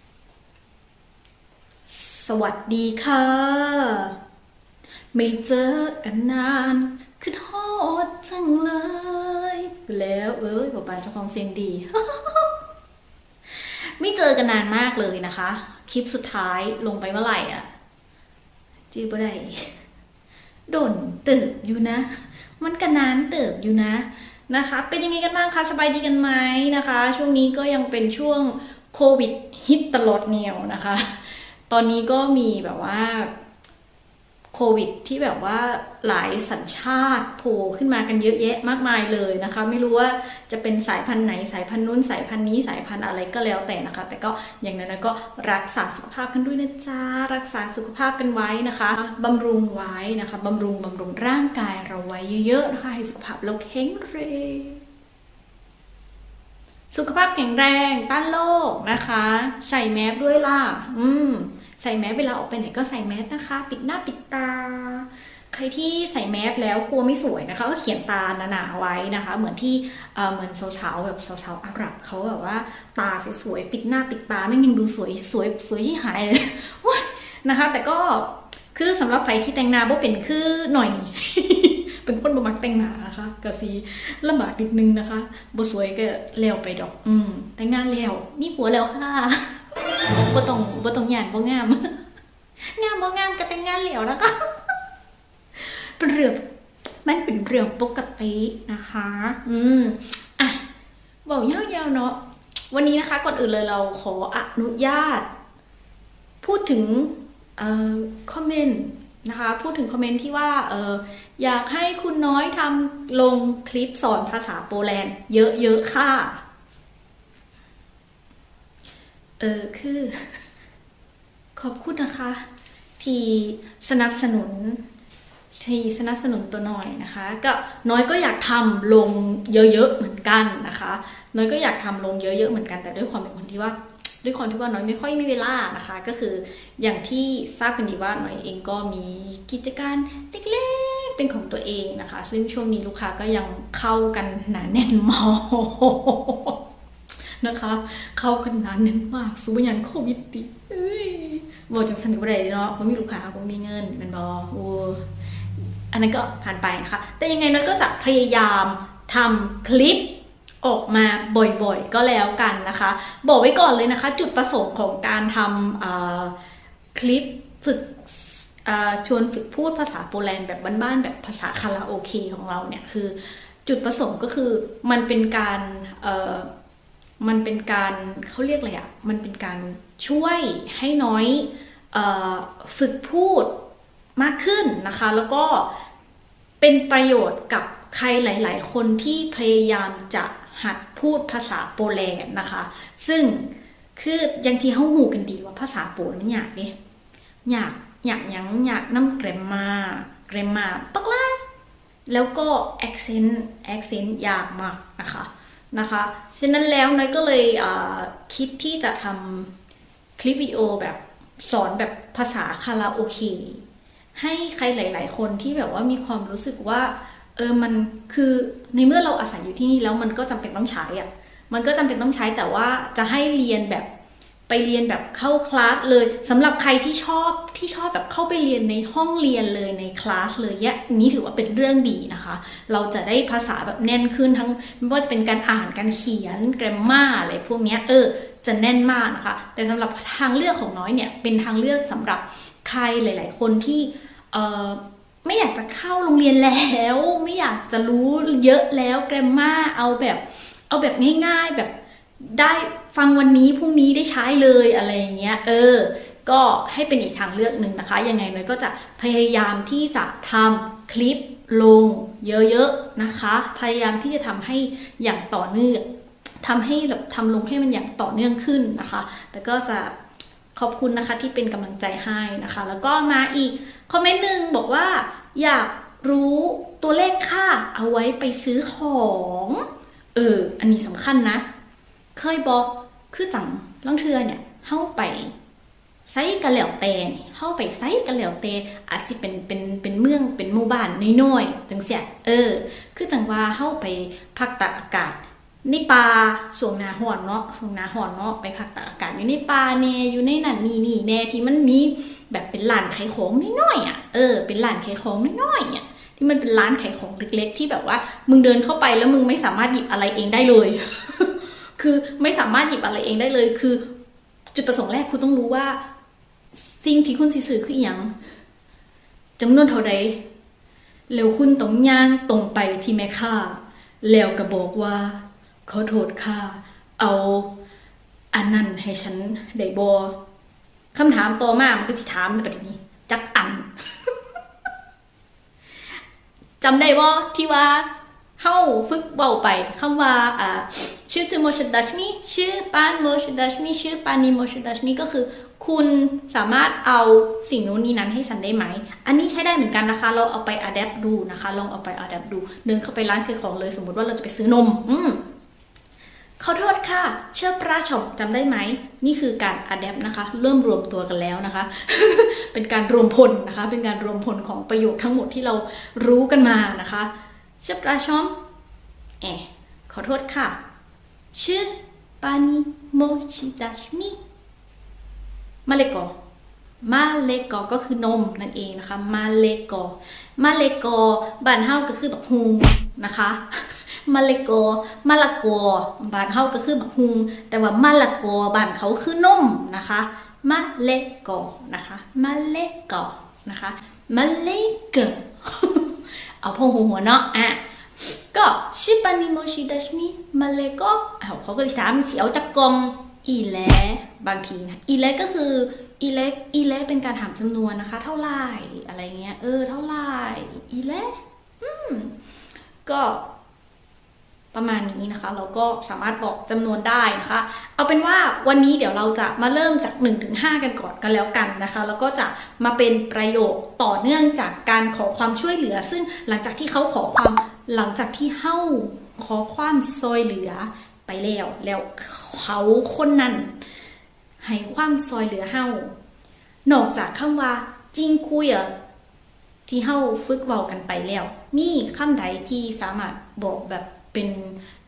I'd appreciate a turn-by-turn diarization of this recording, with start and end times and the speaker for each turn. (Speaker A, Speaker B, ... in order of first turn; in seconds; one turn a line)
Speaker A: 1.9-4.2
Speaker A: 5.1-12.6
Speaker A: 13.5-17.7
Speaker A: 18.9-19.8
Speaker A: 20.7-33.3
Speaker A: 34.5-54.8
Speaker A: 56.9-89.6
Speaker A: 90.2-92.0
Speaker A: 92.7-94.8
Speaker A: 95.6-96.5
Speaker A: 97.0-100.7
Speaker A: 101.2-105.3
Speaker A: 106.4-116.4
Speaker A: 119.4-120.4
Speaker A: 121.6-122.5
Speaker A: 123.0-124.8
Speaker A: 125.5-146.6
Speaker A: 147.4-155.1
Speaker A: 155.9-166.3
Speaker A: 166.9-176.5
Speaker A: 177.2-183.6
Speaker A: 184.2-185.7
Speaker A: 186.6-196.7
Speaker A: 197.5-201.4
Speaker A: 202.1-209.5
Speaker A: 210.2-213.6
Speaker A: 214.2-223.9
Speaker A: 224.5-265.9
Speaker A: 266.4-269.9
Speaker A: 270.6-281.4
Speaker A: 282.1-285.4
Speaker A: 286.1-313.9
Speaker A: 314.5-315.8
Speaker A: 316.5-318.1
Speaker A: 319.4-320.2
Speaker A: 321.1-327.5
Speaker A: 328.3-330.1
Speaker A: 330.9-334.2
Speaker A: 336.6-355.2
Speaker A: 356.4-368.4
Speaker A: 369.2-370.6
Speaker A: 371.3-374.2
Speaker A: 375.7-376.1
Speaker A: 376.8-412.1
Speaker A: 412.9-413.2
Speaker A: 414.5-433.6
Speaker A: 434.4-436.0
Speaker A: 436.7-438.8
Speaker A: 439.7-444.6